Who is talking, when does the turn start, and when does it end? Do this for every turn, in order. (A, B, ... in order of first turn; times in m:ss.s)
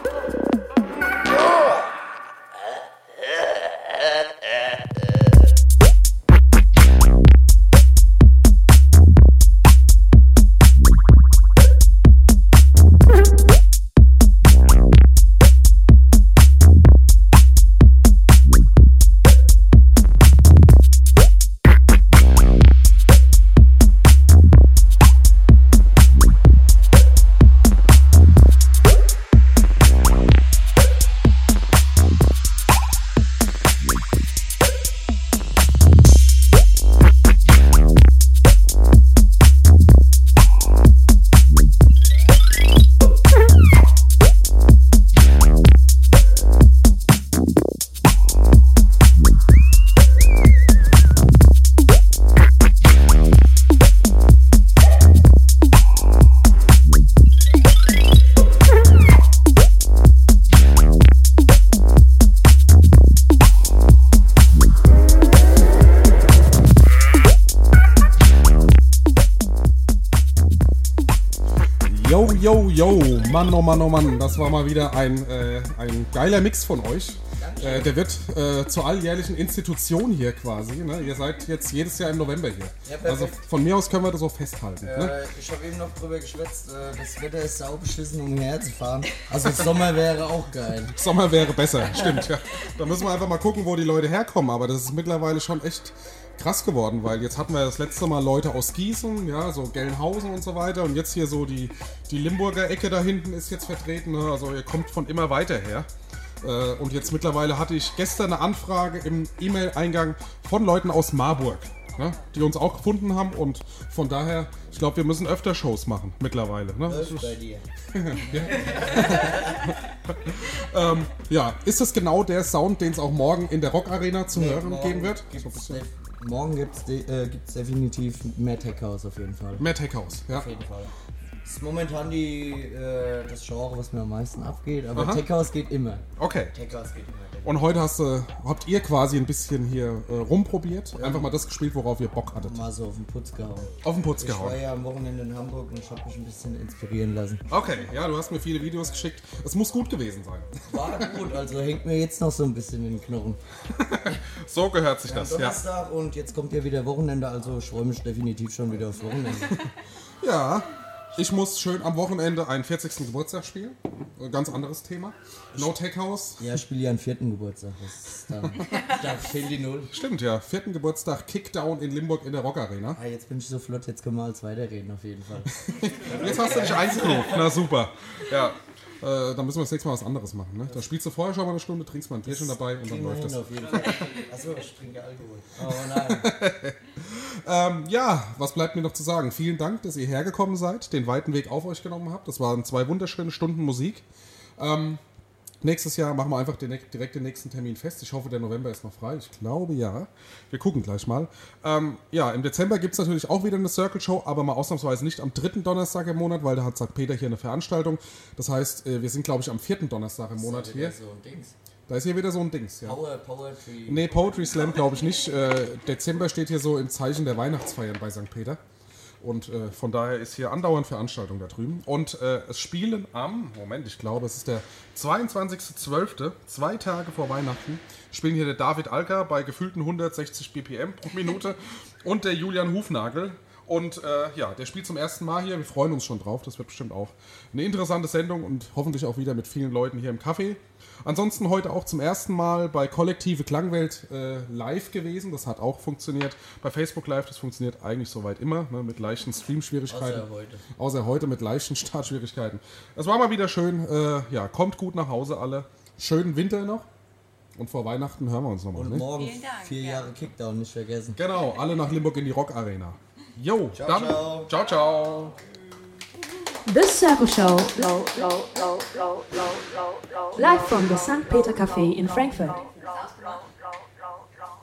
1:11.9-1:25.2 A
1:17.4-1:18.0 B
1:22.8-1:23.4 B
1:24.8-1:31.0 B
1:30.9-1:45.9 A
1:46.4-1:57.4 A
1:56.9-1:57.6 B
1:57.9-2:05.8 A
1:58.5-1:59.6 B
2:04.3-2:09.7 B
2:09.6-2:10.5 A
2:10.3-2:10.9 B
2:11.4-2:17.6 B
2:14.9-2:15.3 A
2:16.2-2:16.6 A
2:17.4-2:22.6 A
2:21.0-2:21.3 B
2:22.3-2:27.4 B
2:23.8-2:24.6 A
2:27.5-2:31.0 A
2:30.7-2:33.4 B
2:33.8-2:35.6 A
2:35.0-2:39.6 B
2:40.2-2:46.5 A
2:46.4-2:49.9 B
2:49.9-2:53.0 A
2:53.0-2:57.6 B
2:55.7-3:03.9 A
3:02.2-3:06.3 B
3:05.7-3:14.0 A
3:14.6-3:15.0 A
3:15.6-3:31.0 A
3:30.4-3:31.5 B
3:31.9-3:33.0 A
3:32.8-3:34.1 B
3:33.8-3:38.6 A
3:39.2-4:16.9 A
4:09.9-4:10.6 B
4:17.6-4:19.1 A
4:18.7-4:21.2 B
4:21.2-4:25.4 A
4:23.7-4:24.5 B
4:26.7-4:29.3 C
4:30.3-4:32.7 C